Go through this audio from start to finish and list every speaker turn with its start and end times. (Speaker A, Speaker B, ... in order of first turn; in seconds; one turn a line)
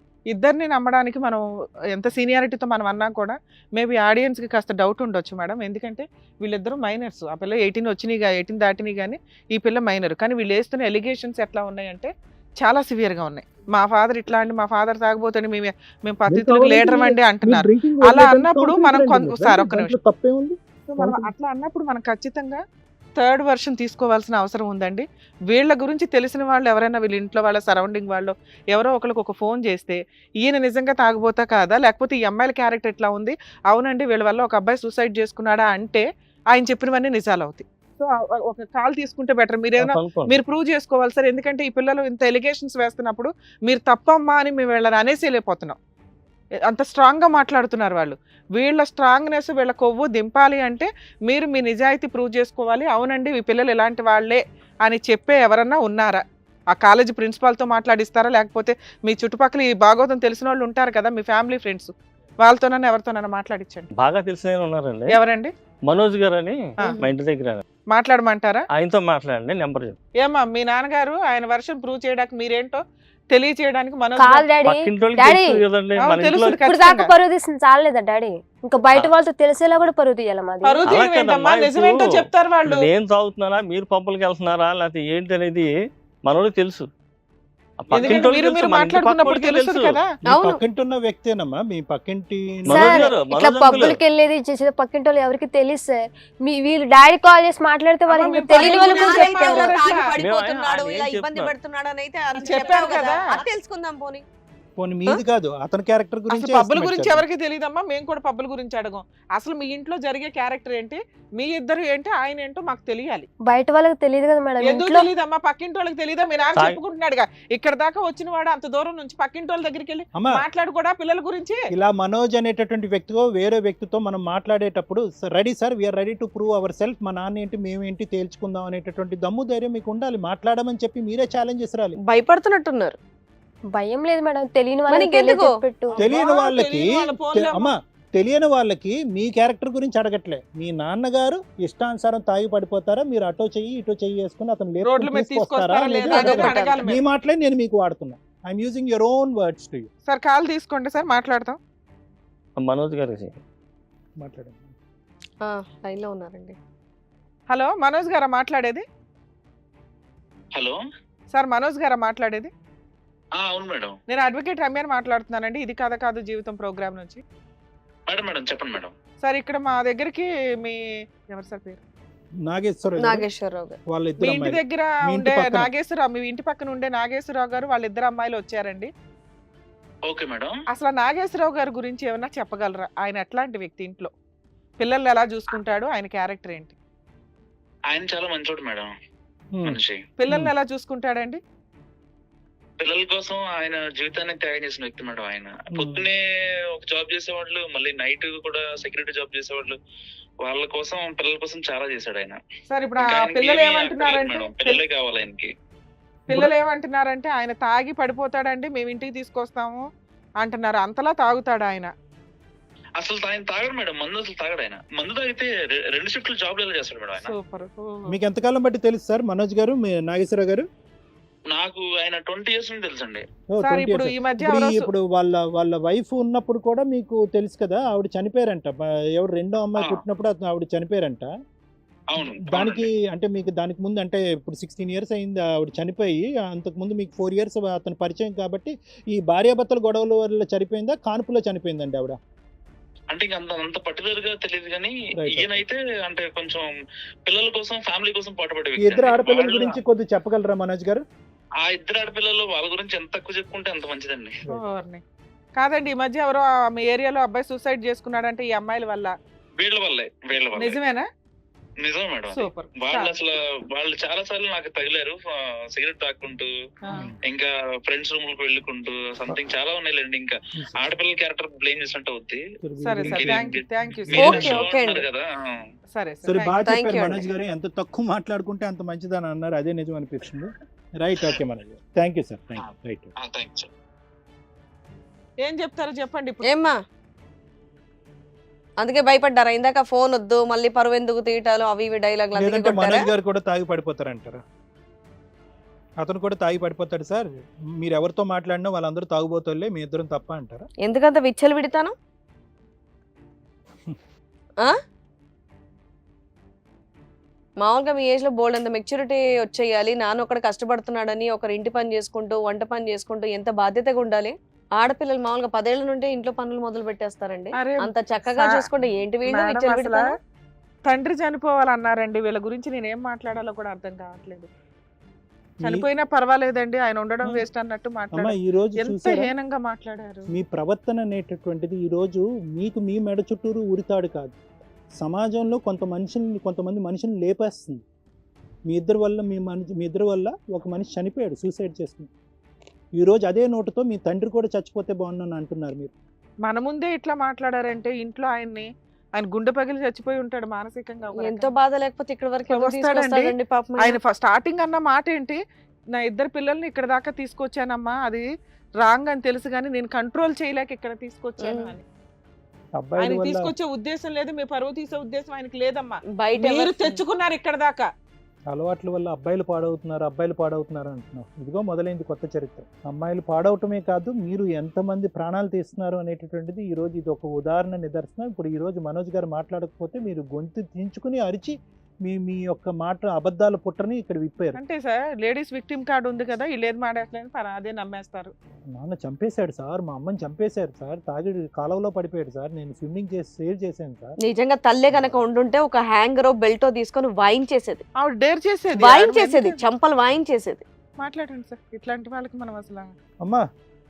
Speaker A: 0.3-1.4
Speaker A: 1.9-19.9
Speaker B: 16.3-21.3
Speaker A: 20.9-22.6
Speaker A: 23.2-45.8
Speaker C: 39.8-40.3
Speaker A: 46.7-56.2
Speaker A: 56.7-63.9
Speaker C: 64.0-65.2
Speaker A: 65.1-65.5
Speaker C: 65.8-67.6
Speaker A: 67.9-68.6
Speaker C: 68.7-70.0
Speaker A: 70.2-74.4
Speaker D: 74.2-75.6
Speaker C: 74.6-76.7
Speaker A: 76.0-77.1
Speaker D: 76.7-80.9
Speaker A: 80.6-82.9
Speaker C: 80.9-86.9
Speaker C: 87.8-90.0
Speaker A: 87.9-90.1
Speaker B: 90.2-93.1
Speaker E: 90.2-90.6
Speaker C: 92.7-94.0
Speaker D: 92.7-99.8
Speaker A: 98.1-100.0
Speaker E: 98.5-104.2
Speaker C: 100.2-101.5
Speaker A: 102.3-103.3
Speaker B: 104.8-107.2
Speaker A: 106.3-113.3
Speaker D: 113.5-115.1
Speaker A: 114.6-121.6
Speaker B: 120.1-120.4
Speaker B: 121.7-132.0
Speaker E: 132.0-133.0
Speaker D: 133.7-136.0
Speaker E: 134.9-135.6
Speaker A: 135.9-137.7
Speaker B: 136.0-149.9
Speaker A: 144.8-147.0
Speaker E: 146.1-146.8
Speaker A: 150.1-151.6
Speaker C: 152.6-153.4
Speaker B: 154.2-154.8
Speaker E: 155.4-156.6
Speaker A: 157.5-158.8
Speaker A: 161.3-162.5
Speaker F: 163.4-163.9
Speaker A: 164.1-167.2
Speaker F: 168.1-168.9
Speaker A: 169.2-171.8
Speaker B: 172.4-173.3
Speaker E: 173.0-173.8
Speaker B: 173.9-175.7
Speaker A: 174.2-178.9
Speaker F: 180.1-180.5
Speaker A: 180.7-184.1
Speaker A: 184.8-186.8
Speaker F: 187.9-188.9
Speaker B: 189.5-190.5
Speaker F: 189.6-190.0
Speaker A: 190.2-191.4
Speaker F: 192.8-196.2
Speaker B: 195.7-196.1
Speaker F: 196.7-199.8
Speaker F: 200.4-202.4
Speaker A: 202.7-204.8
Speaker F: 203.0-205.5
Speaker A: 206.3-209.8
Speaker A: 210.4-211.9
Speaker F: 213.0-217.3
Speaker A: 217.2-218.1
Speaker B: 218.1-220.7
Speaker F: 221.5-223.2
Speaker B: 223.5-231.3
Speaker A: 223.6-224.9
Speaker F: 232.1-232.9
Speaker B: 232.2-242.2
Speaker F: 243.1-246.7
Speaker B: 245.1-245.6
Speaker F: 247.2-249.7
Speaker B: 248.8-251.0
Speaker F: 251.6-254.4
Speaker A: 254.5-255.0
Speaker A: 255.6-259.1
Speaker F: 259.6-260.8
Speaker A: 260.6-261.1
Speaker F: 261.8-265.2
Speaker A: 262.3-263.1
Speaker F: 265.7-266.5
Speaker F: 267.3-272.4
Speaker B: 272.6-274.6
Speaker A: 272.8-274.5
Speaker F: 273.1-275.6
Speaker E: 274.1-275.1
Speaker A: 275.9-276.7
Speaker B: 276.2-283.1
Speaker E: 276.6-277.2
Speaker F: 283.2-283.7
Speaker A: 285.4-286.4
Speaker E: 286.5-286.7
Speaker E: 288.8-293.1
Speaker B: 292.3-294.4
Speaker B: 296.0-300.6
Speaker E: 300.8-301.9
Speaker E: 307.6-320.1
Speaker A: 317.6-318.6
Speaker A: 319.3-320.1
Speaker A: 320.9-324.5
Speaker B: 325.6-325.9
Speaker A: 325.6-330.3
Speaker B: 328.1-329.3
Speaker B: 330.3-334.4
Speaker B: 335.0-337.8
Speaker B: 338.7-342.1
Speaker B: 343.0-345.9
Speaker A: 346.4-351.5
Speaker E: 351.1-354.0
Speaker A: 352.5-353.2
Speaker A: 353.8-355.4
Speaker A: 355.9-358.3
Speaker A: 358.8-361.8
Speaker E: 361.4-361.7
Speaker B: 362.8-363.5
Speaker A: 363.0-367.9
Speaker E: 366.2-367.0
Speaker B: 368.5-381.5
Speaker B: 382.1-384.6
Speaker A: 384.6-388.3
Speaker B: 388.7-394.2
Speaker E: 394.2-397.8
Speaker B: 394.9-395.2
Speaker A: 398.0-399.6
Speaker E: 398.8-400.6
Speaker A: 401.0-402.9